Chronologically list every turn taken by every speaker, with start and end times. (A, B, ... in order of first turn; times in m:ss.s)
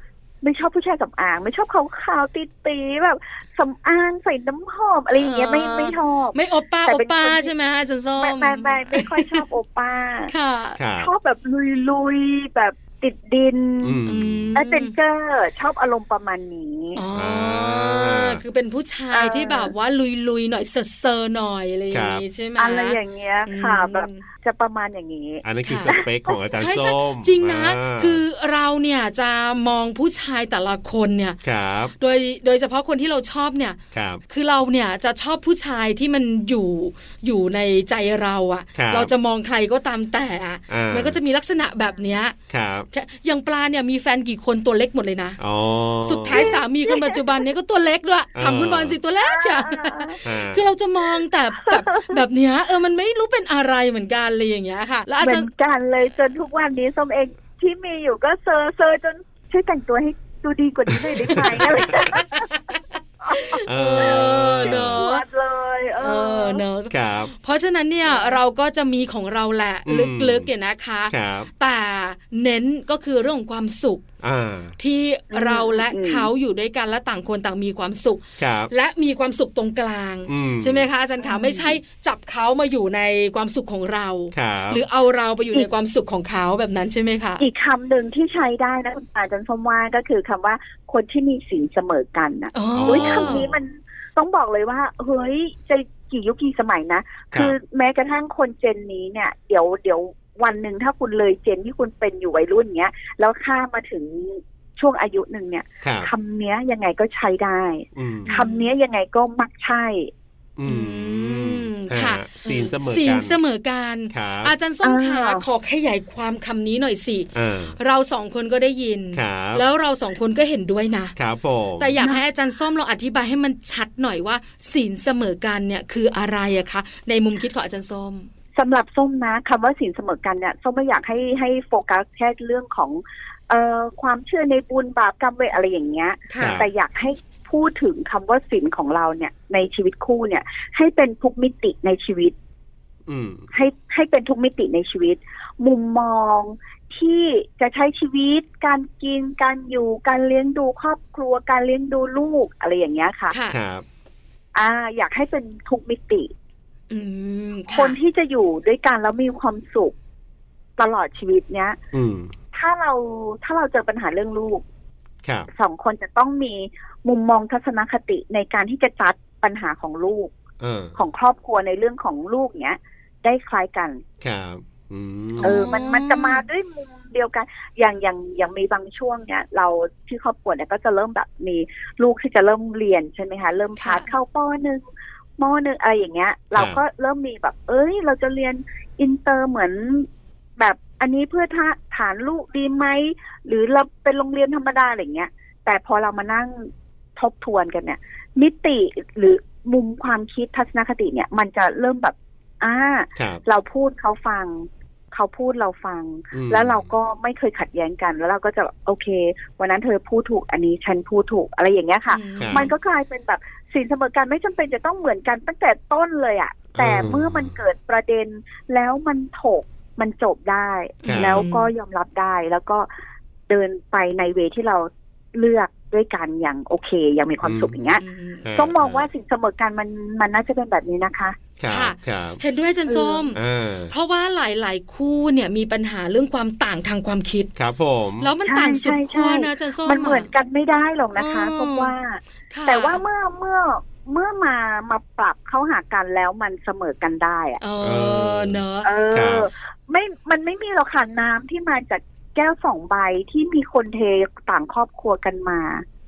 0:00.4-0:07.5 A
0:05.1-0:09.4 B
0:08.2-0:10.3 A
0:10.3-0:10.8 B
0:10.8-0:11.1 C
0:11.0-0:14.0 A
0:13.8-0:14.6 C
0:14.0-0:15.0 B
0:14.5-0:17.0 A
0:17.0-0:24.2 B
0:17.1-0:18.4 C
0:19.1-0:19.7 A
0:21.9-0:22.2 C
0:22.6-0:26.4 A
0:25.4-0:28.2 C
0:25.6-0:26.0 B
0:26.5-0:31.4 B
0:31.4-0:31.9 C
0:32.0-0:42.4 B
0:33.9-0:34.2 C
0:38.7-0:39.1 C
0:40.7-0:41.2 C
0:42.5-0:42.9 C
0:42.9-0:45.4 B
0:45.4-0:46.6 C
0:46.0-0:55.5 B
0:46.3-0:47.4 A
0:48.3-0:49.0 C
0:49.2-0:50.2 A
0:50.2-0:50.6 C
0:51.7-0:52.2 A
0:55.2-1:02.5 A
1:00.9-1:01.8 C
1:01.3-1:05.2 B
1:03.3-1:06.6 A
1:03.6-1:05.0 C
1:06.0-1:14.0 B
1:06.9-1:07.3 C
1:08.0-1:08.4 A
1:09.8-1:10.5 C
1:11.1-1:11.5 C
1:14.2-1:14.8 C
1:14.8-1:27.4 B
1:15.3-1:16.3 A
1:18.4-1:18.7 C
1:20.3-1:20.9 C
1:21.2-1:21.8 A
1:24.3-1:24.8 C
1:27.4-1:50.1 A
1:32.5-1:33.5 B
1:32.7-1:33.6 C
1:45.8-1:46.1 C
1:48.0-1:48.4 C
1:48.3-1:48.7 B
1:50.6-1:53.4 C
1:50.6-2:01.1 B
1:54.1-1:54.5 C
1:54.8-1:55.4 A
1:57.3-1:57.8 C
1:59.1-1:59.6 C
2:01.2-2:01.9 C
2:01.8-2:08.3 B
2:08.6-2:22.3 A
2:16.3-2:16.6 B
2:16.4-2:16.7 C
2:23.1-2:23.5 C
2:23.5-2:33.3 A
2:33.3-2:33.6 B
2:33.5-2:33.8 C
2:34.5-2:36.3 A
2:36.9-2:38.0 B
2:37.7-2:39.9 A
2:40.8-2:41.8 A
2:41.9-2:42.3 C
2:42.5-2:44.6 A
2:45.5-2:50.3 A
2:50.6-2:51.0 C
2:51.0-2:54.0 A
2:54.2-2:55.6 C
2:55.4-2:56.4 B
2:55.4-3:04.8 A
3:03.8-3:04.1 B
3:05.4-3:42.9 A
3:06.5-3:06.8 C
3:23.2-3:23.4 C
3:26.3-3:26.9 C
3:32.1-3:32.7 B
3:32.4-3:32.7 C
3:36.8-3:37.5 C
3:41.0-3:41.7 B
3:41.0-3:41.4 C
3:43.5-3:48.0 A
3:47.4-3:47.8 C
3:48.0-3:48.4 B
3:48.4-3:49.1 C
3:48.5-3:51.4 A
3:51.6-3:52.4 C
3:51.7-3:53.4 B
3:52.9-3:53.3 A
3:53.3-3:53.9 C
3:53.9-3:57.5 B
3:57.6-3:58.3 C
3:58.2-4:00.3 B
3:58.5-4:07.6 A
4:01.2-4:01.9 B
4:02.5-4:03.0 B
4:07.6-4:08.9 B
4:07.8-4:08.6 C
4:08.8-4:15.8 A
4:09.1-4:09.5 C